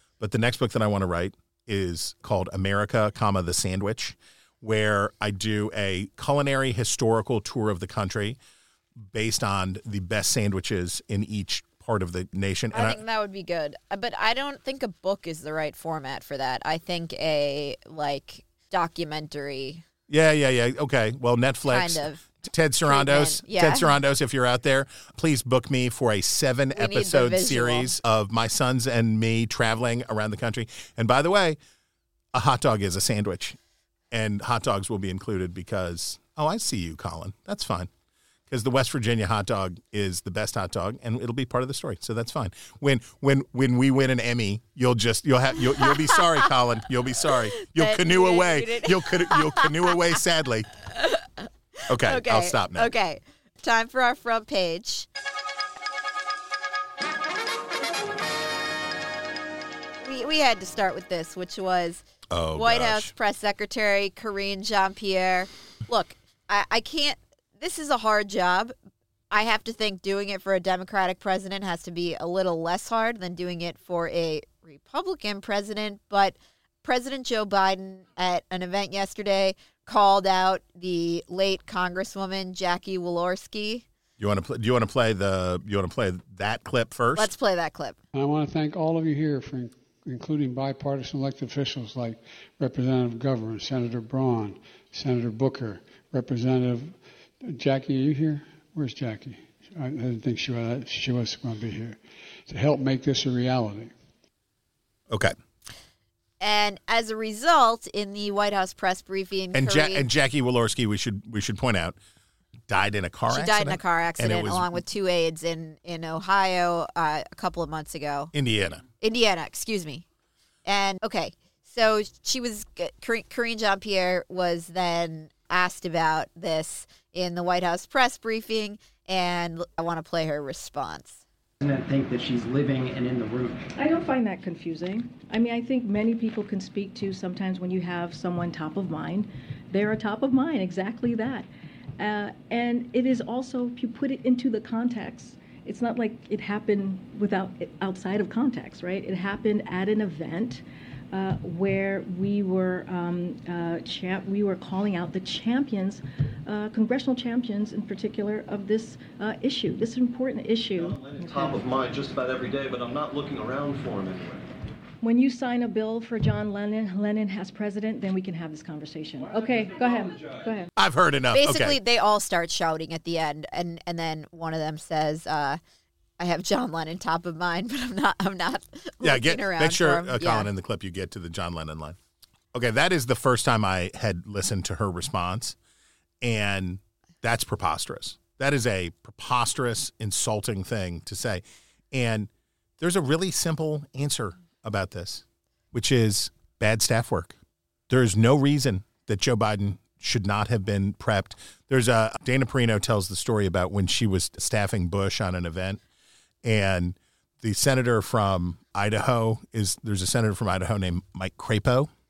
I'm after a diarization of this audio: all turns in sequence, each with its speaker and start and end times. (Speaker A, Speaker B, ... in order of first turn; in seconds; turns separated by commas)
Speaker A: 0.2-8.4, Speaker A: 9.0-13.0, Speaker B: 12.7-19.8, Speaker A: 20.1-31.6, Speaker B: 21.7-22.2, Speaker B: 22.8-23.9, Speaker B: 26.7-27.9, Speaker A: 32.3-33.6, Speaker A: 34.1-37.9, Speaker A: 38.5-50.7, Speaker B: 45.8-46.5, Speaker B: 47.6-50.0, Speaker B: 50.9-51.4, Speaker A: 51.9-52.9, Speaker B: 52.0-55.1, Speaker B: 60.0-62.0, Speaker A: 62.3-63.1, Speaker B: 62.5-68.7, Speaker B: 69.3-83.8, Speaker A: 84.2-87.3, Speaker B: 87.1-88.0, Speaker C: 88.1-103.9, Speaker A: 105.1-105.3, Speaker B: 106.4-110.0, Speaker A: 109.5-112.0, Speaker A: 112.7-114.8, Speaker B: 113.3-118.3, Speaker A: 118.3-118.8, Speaker B: 119.0-120.0, Speaker B: 120.6-131.2, Speaker D: 131.6-133.6, Speaker E: 133.7-161.6, Speaker F: 160.8-164.5, Speaker E: 165.0-170.7, Speaker A: 170.8-171.8, Speaker B: 171.3-175.6, Speaker B: 176.2-180.5, Speaker A: 179.0-182.0, Speaker A: 182.5-185.6, Speaker A: 186.2-197.4, Speaker A: 197.9-205.8, Speaker A: 206.4-211.9